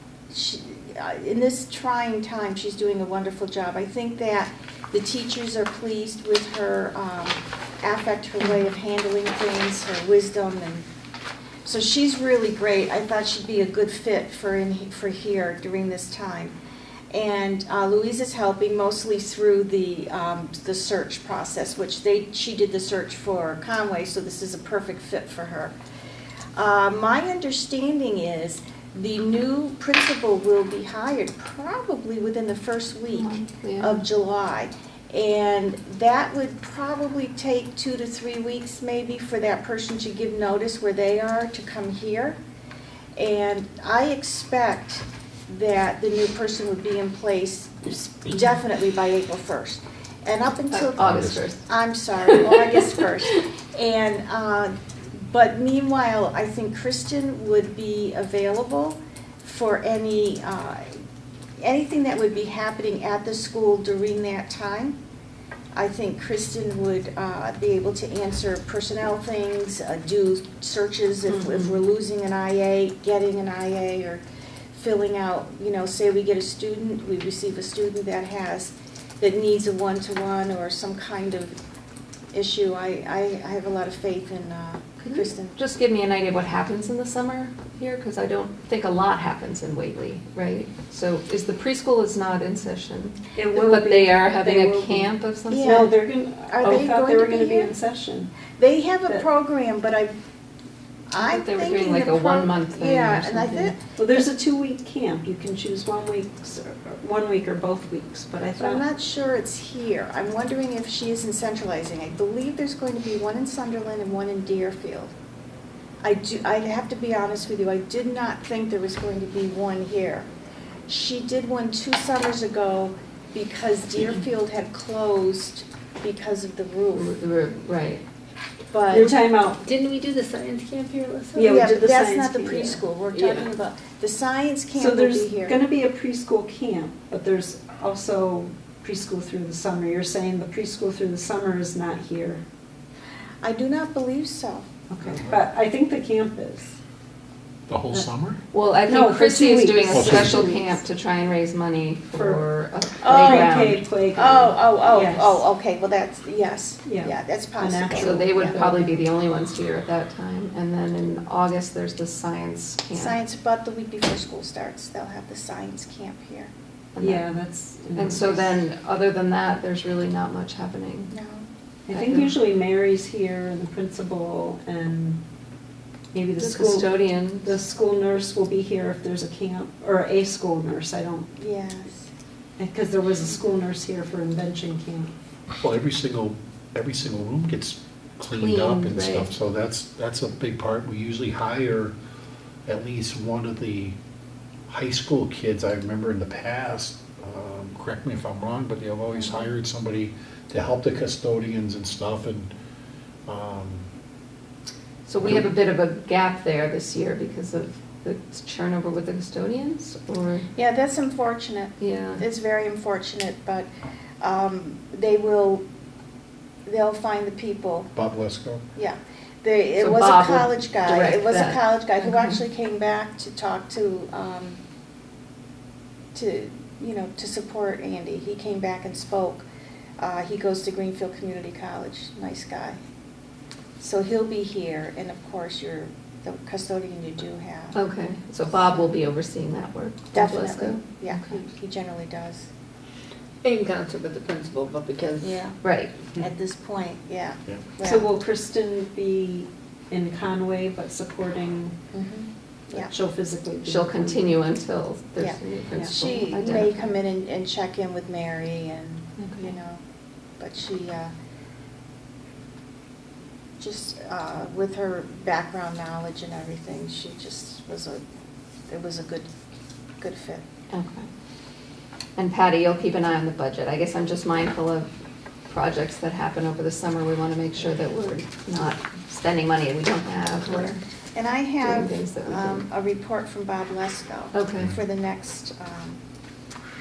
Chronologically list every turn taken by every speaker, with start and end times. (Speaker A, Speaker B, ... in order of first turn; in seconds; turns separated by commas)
Speaker A: 0.3-10.9, Speaker A: 11.6-16.5, Speaker A: 17.1-25.7, Speaker A: 26.6-42.4, Speaker B: 33.1-34.0, Speaker A: 43.1-61.0, Speaker B: 50.7-51.6, Speaker C: 51.0-51.4, Speaker A: 61.6-65.0, Speaker A: 65.7-74.2, Speaker B: 71.2-71.9, Speaker A: 74.7-81.5, Speaker A: 82.3-85.6, Speaker B: 85.0-95.8, Speaker D: 93.3-95.1, Speaker A: 95.5-95.9, Speaker D: 95.6-98.3, Speaker A: 96.4-97.7, Speaker A: 98.5-100.1, Speaker A: 101.1-103.8, Speaker B: 101.2-103.7, Speaker D: 104.0-108.8, Speaker A: 108.6-115.1, Speaker A: 116.0-120.3, Speaker A: 120.9-127.1, Speaker B: 126.9-128.0, Speaker A: 128.7-129.1, Speaker D: 128.9-129.6, Speaker E: 129.0-131.6, Speaker D: 131.3-132.8, Speaker A: 131.4-135.6, Speaker E: 133.2-133.4, Speaker D: 134.8-142.4, Speaker A: 143.4-144.7, Speaker D: 144.9-146.8, Speaker C: 145.0-145.4, Speaker C: 147.7-148.4, Speaker B: 148.5-153.8, Speaker D: 148.9-150.8, Speaker C: 149.9-150.5, Speaker D: 152.1-152.4, Speaker A: 153.0-153.5, Speaker D: 153.1-155.4, Speaker A: 154.1-158.6, Speaker D: 156.8-159.0, Speaker B: 157.9-163.2, Speaker A: 162.9-166.5, Speaker B: 166.9-167.2, Speaker D: 167.0-168.5, Speaker B: 167.9-171.1, Speaker A: 171.1-171.5, Speaker D: 171.9-175.2, Speaker B: 171.9-172.4, Speaker D: 176.1-181.3, Speaker B: 176.4-177.6, Speaker A: 181.3-182.1, Speaker D: 182.6-185.1, Speaker C: 185.6-191.9, Speaker B: 188.3-189.3, Speaker C: 192.7-193.9, Speaker C: 194.7-202.5, Speaker C: 203.3-203.9, Speaker B: 205.1-210.5, Speaker C: 205.2-205.5, Speaker A: 210.6-213.7, Speaker B: 211.8-212.2, Speaker A: 214.2-215.6, Speaker A: 216.7-217.9, Speaker C: 217.9-218.6, Speaker A: 218.7-224.6, Speaker B: 219.8-222.3, Speaker A: 226.1-229.4, Speaker A: 230.0-232.8, Speaker A: 233.8-237.8, Speaker B: 237.7-241.4, Speaker A: 240.1-242.5, Speaker E: 243.4-245.4, Speaker A: 245.2-245.6, Speaker B: 245.6-245.9, Speaker A: 246.1-248.1, Speaker D: 247.8-251.8, Speaker A: 251.9-252.9, Speaker D: 252.7-254.2, Speaker B: 253.6-256.9, Speaker A: 255.2-259.8, Speaker B: 259.2-259.6, Speaker A: 260.4-261.1, Speaker A: 263.6-268.0, Speaker A: 268.7-269.3, Speaker A: 270.0-270.4, Speaker B: 270.7-271.1, Speaker B: 272.2-274.9, Speaker B: 275.5-280.8, Speaker A: 280.5-286.0, Speaker B: 281.6-282.6, Speaker B: 284.3-284.7